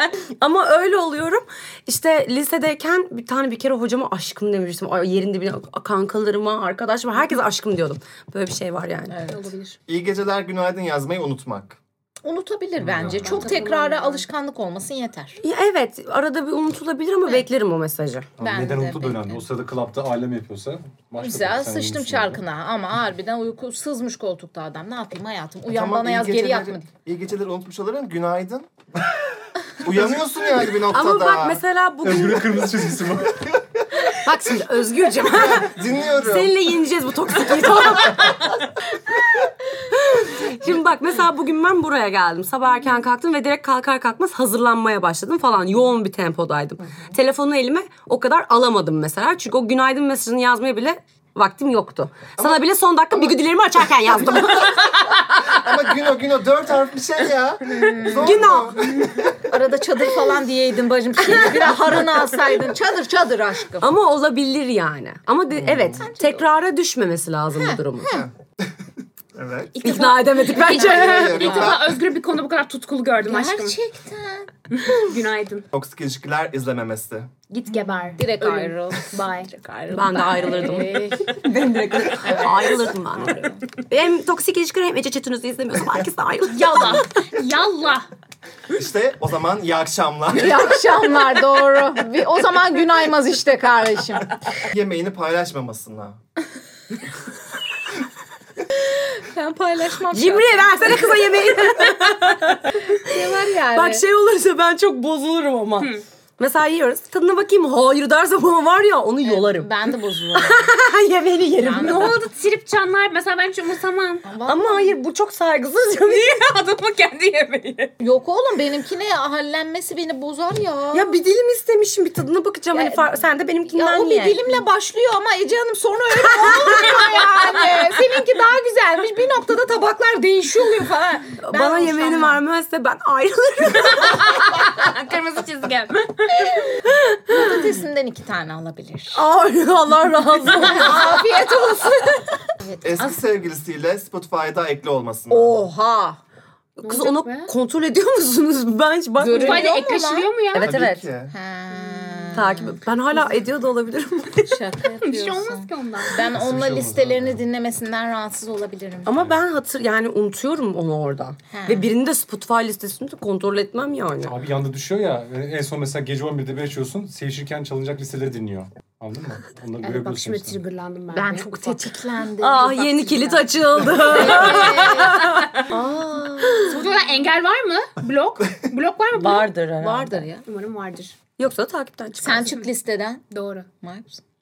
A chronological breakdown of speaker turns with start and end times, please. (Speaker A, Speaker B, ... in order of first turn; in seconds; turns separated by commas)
Speaker A: 0.4-9.3, Speaker B: 9.1-9.5, Speaker C: 9.3-9.8, Speaker D: 9.9-11.8, Speaker B: 12.2-15.4, Speaker E: 12.8-13.3, Speaker C: 13.0-14.2, Speaker A: 15.4-18.3, Speaker B: 18.4-19.4, Speaker E: 18.4-22.4, Speaker B: 21.2-26.9, Speaker D: 25.7-28.7, Speaker D: 29.8-31.6, Speaker A: 30.9-32.6, Speaker E: 32.0-33.5, Speaker A: 34.1-38.6, Speaker D: 35.3-36.5, Speaker A: 39.9-54.8, Speaker D: 55.4-59.4, Speaker B: 57.7-58.4, Speaker A: 58.1-58.9, Speaker B: 59.4-63.9, Speaker A: 61.3-61.7, Speaker A: 63.8-68.2, Speaker D: 65.6-66.0, Speaker B: 65.7-66.5, Speaker B: 67.5-68.2, Speaker D: 68.1-68.7, Speaker D: 69.3-69.8, Speaker C: 69.8-73.8, Speaker A: 69.8-71.7, Speaker B: 70.7-71.8, Speaker D: 70.9-71.8, Speaker B: 73.2-74.5, Speaker C: 74.7-75.7, Speaker D: 75.7-77.3, Speaker C: 77.5-79.5, Speaker B: 78.1-81.5, Speaker A: 79.9-87.1, Speaker B: 82.1-83.6, Speaker C: 86.5-88.1, Speaker D: 88.8-90.7, Speaker B: 90.3-94.3, Speaker D: 94.7-96.2, Speaker B: 98.8-102.0, Speaker A: 100.1-112.1, Speaker B: 102.8-104.0, Speaker B: 109.2-110.6, Speaker B: 111.6-112.2, Speaker C: 111.8-114.2, Speaker B: 114.2-115.0, Speaker A: 114.5-116.3, Speaker C: 115.9-117.9, Speaker B: 118.0-121.2, Speaker A: 120.9-124.6, Speaker B: 122.7-132.4, Speaker A: 126.3-127.0, Speaker A: 131.4-134.5, Speaker C: 134.0-136.7, Speaker B: 136.5-139.2, Speaker A: 136.8-137.6, Speaker A: 139.1-142.2, Speaker B: 140.6-143.2, Speaker D: 142.8-145.6, Speaker B: 145.3-146.2, Speaker A: 146.8-149.8, Speaker C: 146.8-147.5, Speaker B: 149.2-150.3, Speaker C: 149.3-150.8, Speaker A: 150.5-151.1, Speaker D: 150.6-151.3, Speaker B: 151.3-152.9, Speaker A: 152.3-154.6, Speaker B: 154.4-159.2, Speaker C: 155.0-156.1, Speaker E: 156.2-157.4, Speaker A: 159.0-164.4, Speaker B: 161.5-161.9, Speaker E: 164.2-170.6, Speaker C: 169.8-171.9, Speaker B: 171.1-176.9, Speaker A: 172.4-176.9, Speaker C: 174.2-175.7, Speaker C: 176.7-179.5, Speaker A: 179.1-180.2, Speaker B: 179.8-180.4, Speaker C: 180.4-181.2, Speaker A: 181.4-182.5, Speaker B: 182.2-183.2, Speaker C: 183.3-183.7, Speaker B: 183.8-184.2